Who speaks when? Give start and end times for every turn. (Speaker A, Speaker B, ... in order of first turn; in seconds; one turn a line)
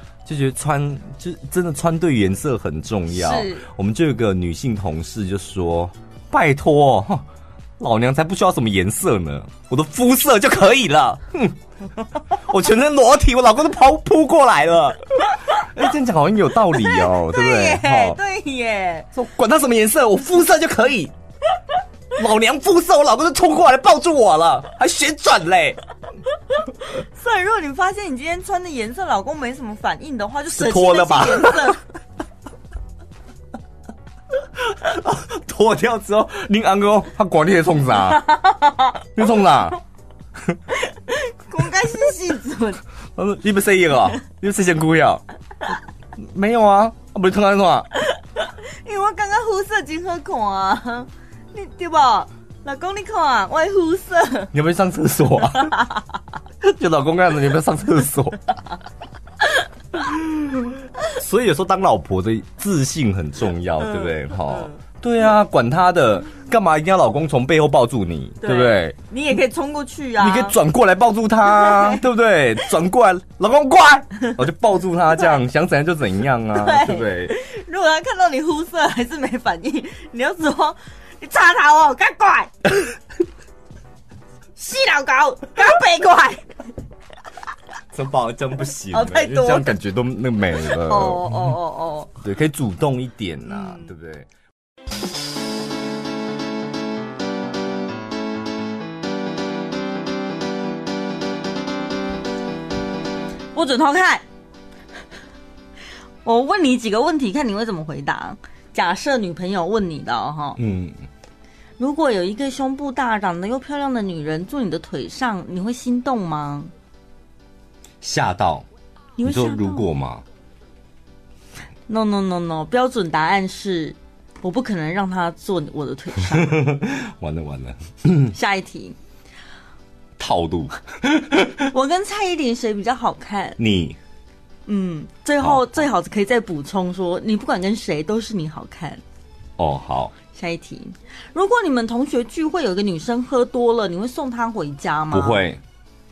Speaker A: 0.2-7.2
Speaker B: 3.1-3.7
Speaker A: 7.8-11.5
Speaker A: 12.3-18.2
Speaker B: 16.7-19.1
Speaker A: 19.1-21.1
Speaker A: 22.1-25.8
Speaker B: 26.8-31.8
Speaker A: 30.5-31.8
Speaker A: 34.7-38.3
Speaker B: 38.0-39.1
Speaker A: 39.1-39.8
Speaker B: 40.7-42.8
Speaker A: 43.1-45.2
Speaker A: 46.2-47.9
Speaker B: 48.0-54.5
Speaker A: 54.5-55.8
Speaker B: 55.5-55.9
Speaker A: 56.6-58.4
Speaker A: 61.0-68.9
Speaker B: 63.8-64.8
Speaker B: 68.4-70.6
Speaker A: 70.2-77.3
Speaker B: 71.4-72.0
Speaker B: 76.5-82.7
Speaker B: 84.6-86.5
Speaker A: 87.9-91.4
Speaker B: 88.9-89.7
Speaker B: 90.6-92.1
Speaker A: 92.2-94.3
Speaker B: 93.5-93.9
Speaker B: 103.5-104.2
Speaker B: 106.2-110.6
Speaker A: 110.6-111.0
Speaker B: 111.8-116.7
Speaker A: 118.0-118.7
Speaker B: 119.2-119.9
Speaker A: 119.2-120.2
Speaker B: 121.9-126.6
Speaker A: 126.4-128.3
Speaker B: 128.3-129.0
Speaker A: 130.2-131.7
Speaker B: 131.7-133.6
Speaker A: 133.6-134.0
Speaker B: 134.7-139.0
Speaker A: 135.4-135.8
Speaker A: 139.6-140.1
Speaker B: 140.3-145.4
Speaker A: 145.1-145.6